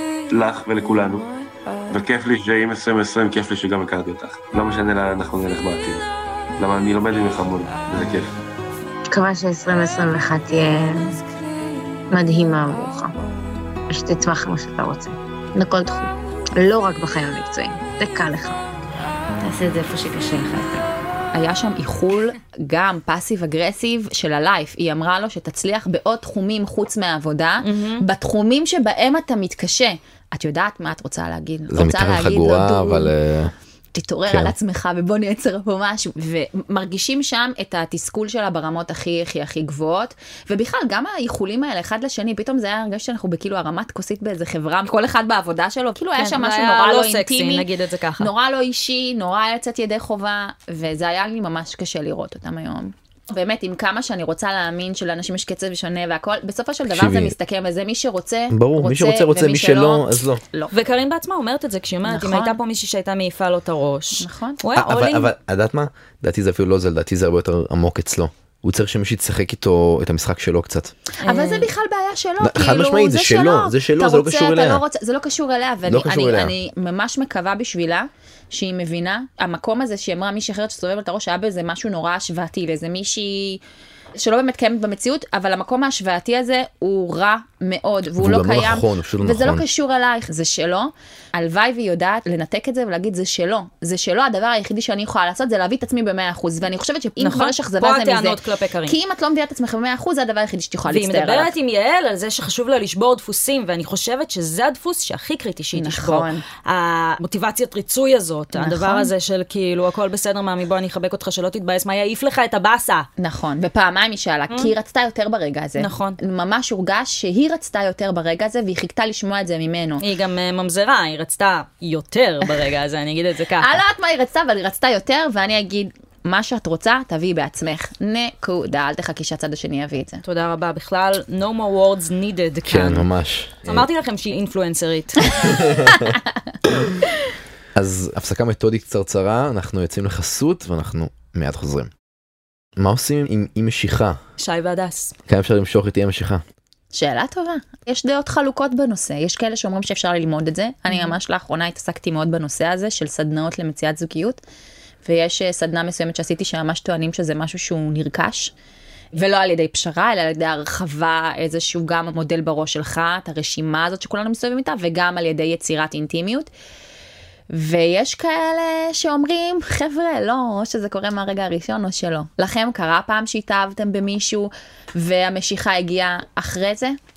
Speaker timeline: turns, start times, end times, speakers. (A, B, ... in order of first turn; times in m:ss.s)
0:00.3-0:01.3 A
0:01.9-0:06.0 A
0:06.6-0:08.3 A
0:09.1-0:11.2 B
0:12.1-0:13.1 B
0:13.9-0:18.6 B
0:19.4-0:20.9 B
0:21.3-0:33.1 C
0:27.6-0:28.0 D
0:31.7-0:33.5 E
0:33.9-0:47.7 C
0:34.3-0:34.5 E
0:46.2-0:48.3 D
0:48.2-1:00.7 C
0:56.9-0:57.3 E
0:58.5-1:00.4 E
1:00.7-1:05.3 D
1:02.0-1:02.6 C
1:04.2-1:04.6 C
1:04.7-1:10.9 E
1:11.2-1:23.6 C
1:11.2-1:11.7 D
1:12.4-1:14.8 E
1:15.8-1:16.5 E
1:24.1-1:41.5 C
1:28.2-1:29.6 E
1:37.2-1:39.0 D
1:40.9-1:53.1 D
1:45.7-1:46.4 C
1:48.5-1:49.1 C
1:53.2-2:00.0 C
1:55.8-1:56.2 D
2:00.0-2:03.8 D
2:03.6-2:10.2 C
2:10.2-2:13.0 D
2:12.7-2:13.8 E
2:13.6-2:15.6 D
2:15.5-2:16.1 E
2:17.7-2:21.9 E
2:22.8-2:24.2 E
2:24.4-2:25.1 D
2:25.3-2:26.4 E
2:26.9-2:34.4 C
2:35.0-2:38.5 C
2:39.1-2:46.5 C
2:47.5-2:57.0 C